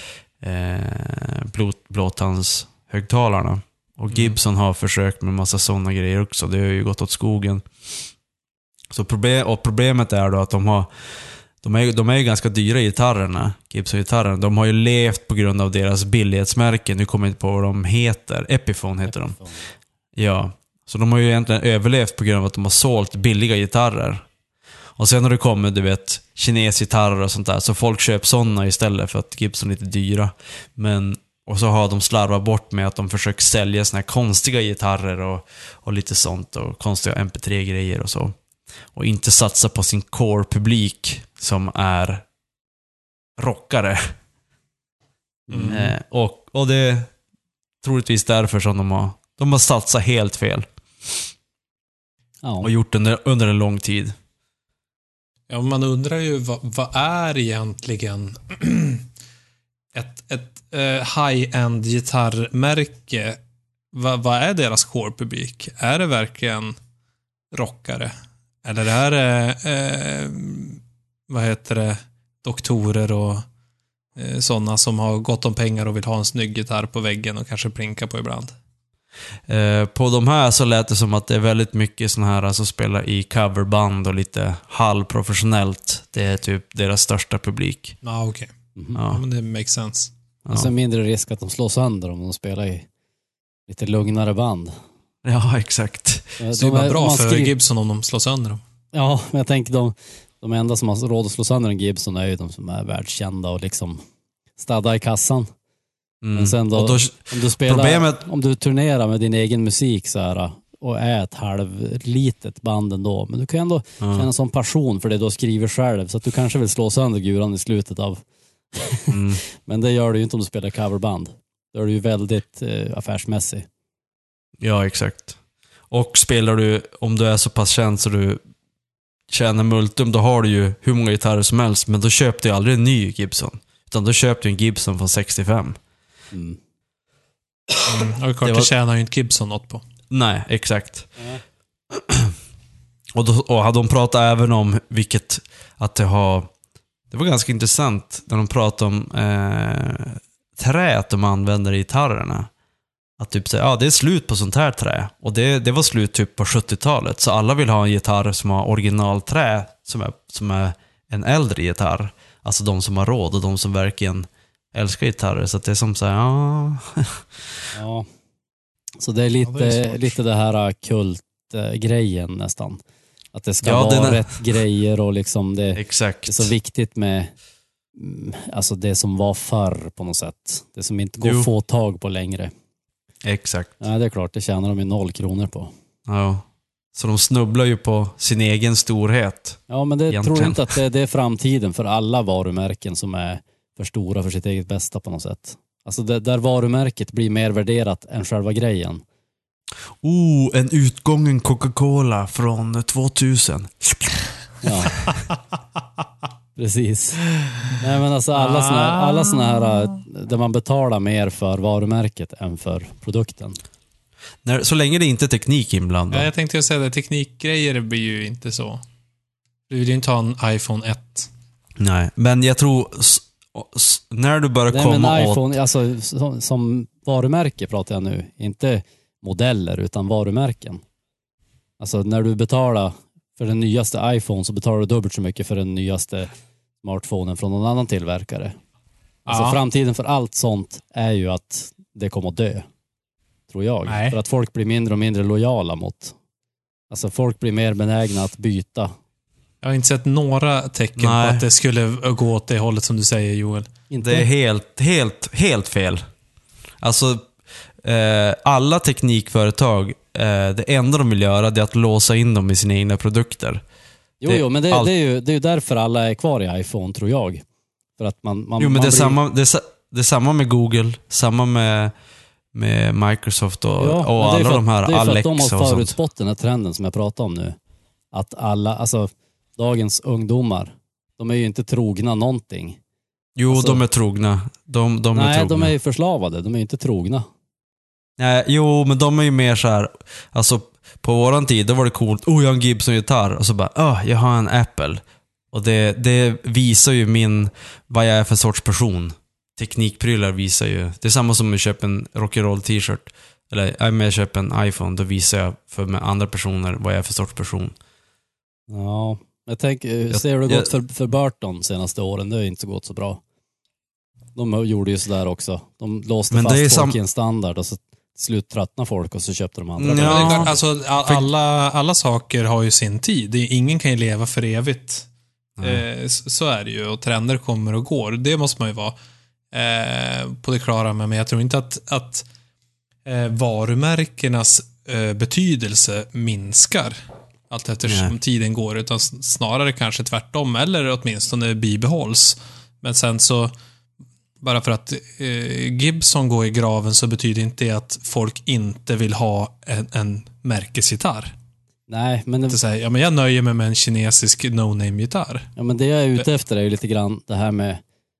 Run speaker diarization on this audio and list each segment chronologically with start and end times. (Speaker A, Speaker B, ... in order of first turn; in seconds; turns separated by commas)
Speaker A: 0.4-7.6, Speaker B: 4.1-4.3, Speaker A: 8.9-10.9, Speaker A: 11.6-19.4, Speaker A: 20.1-24.2, Speaker A: 25.0-38.4, Speaker A: 38.9-42.2, Speaker A: 43.4-44.1, Speaker C: 45.5-45.8, Speaker B: 45.5-45.8, Speaker A: 45.7-47.1, Speaker A: 47.8-51.2, Speaker C: 52.4-52.7, Speaker A: 52.6-54.1, Speaker B: 55.5-59.0, Speaker B: 59.9-63.4, Speaker B: 63.9-66.8, Speaker B: 67.5-68.1, Speaker B: 68.6-73.4, Speaker B: 74.2-78.5, Speaker A: 79.5-88.0, Speaker B: 88.0-90.1, Speaker A: 88.9-89.2, Speaker C: 90.5-92.9, Speaker C: 93.7-94.7, Speaker A: 95.2-96.3, Speaker C: 96.4-97.5, Speaker B: 96.5-98.6, Speaker C: 98.9-104.0, Speaker C: 104.6-105.5, Speaker A: 106.2-108.2, Speaker C: 106.3-118.2, Speaker A: 114.0-114.2, Speaker C: 118.7-123.7, Speaker A: 119.1-119.4, Speaker A: 124.6-125.4, Speaker A: 125.9-128.4, Speaker A: 129.3-135.8, Speaker C: 136.3-136.6, Speaker B: 137.8-139.8, Speaker A: 138.4-138.7, Speaker A: 140.1-141.1, Speaker A: 141.9-142.3, Speaker A: 143.1-146.5, Speaker A: 147.1-152.5, Speaker A: 153.2-167.2, Speaker C: 167.7-168.1, Speaker C: 169.0-172.8, Speaker B: 169.4-170.1, Speaker C: 173.3-177.3, Speaker A: 173.6-174.4, Speaker A: 175.7-176.5, Speaker C: 177.9-182.5, Speaker A: 181.2-181.5, Speaker A: 183.2-183.8, Speaker C: 183.8-185.7, Speaker A: 186.1-190.6, Speaker C: 189.7-199.0, Speaker A: 200.0-204.0, Speaker C: 204.6-205.0, Speaker C: 206.6-207.2, Speaker C: 207.8-213.6, Speaker B: 208.3-209.8, Speaker A: 214.4-216.3, Speaker B: 216.1-218.8, Speaker B: 219.7-221.3, Speaker A: 221.8-225.6, Speaker C: 224.7-230.8, Speaker C: 231.8-236.3, Speaker C: 236.8-238.6, Speaker C: 239.2-242.7, Speaker B: 239.3-239.6, Speaker C: 243.5-246.1, Speaker B: 243.8-244.2, Speaker C: 246.9-248.9, Speaker B: 249.6-253.7, Speaker A: 251.0-251.4, Speaker C: 253.9-254.3, Speaker A: 254.0-256.0, Speaker A: 256.8-257.3, Speaker A: 257.8-263.6, Speaker C: 264.2-267.4, Speaker A: 264.2-264.9, Speaker C: 268.0-269.2, Speaker A: 268.6-271.9, Speaker A: 272.5-275.9, Speaker C: 273.8-277.6, Speaker C: 278.1-282.8, Speaker A: 283.4-285.7, Speaker C: 283.5-283.8, Speaker C: 285.1-287.2, Speaker A: 288.2-307.7, Speaker C: 308.7-313.2, Speaker A: 310.1-310.7, Speaker C: 314.4-320.6, Speaker A: 316.3-317.0, Speaker A: 319.8-321.3, Speaker B: 320.0-325.1, Speaker B: 325.6-328.9, Speaker B: 329.5-332.2, Speaker B: 333.0-343.5, Speaker A: 337.9-338.1, Speaker B: 344.4-351.3, Speaker C: 351.9-352.6, Speaker B: 352.5-355.5, Speaker C: 355.6-357.8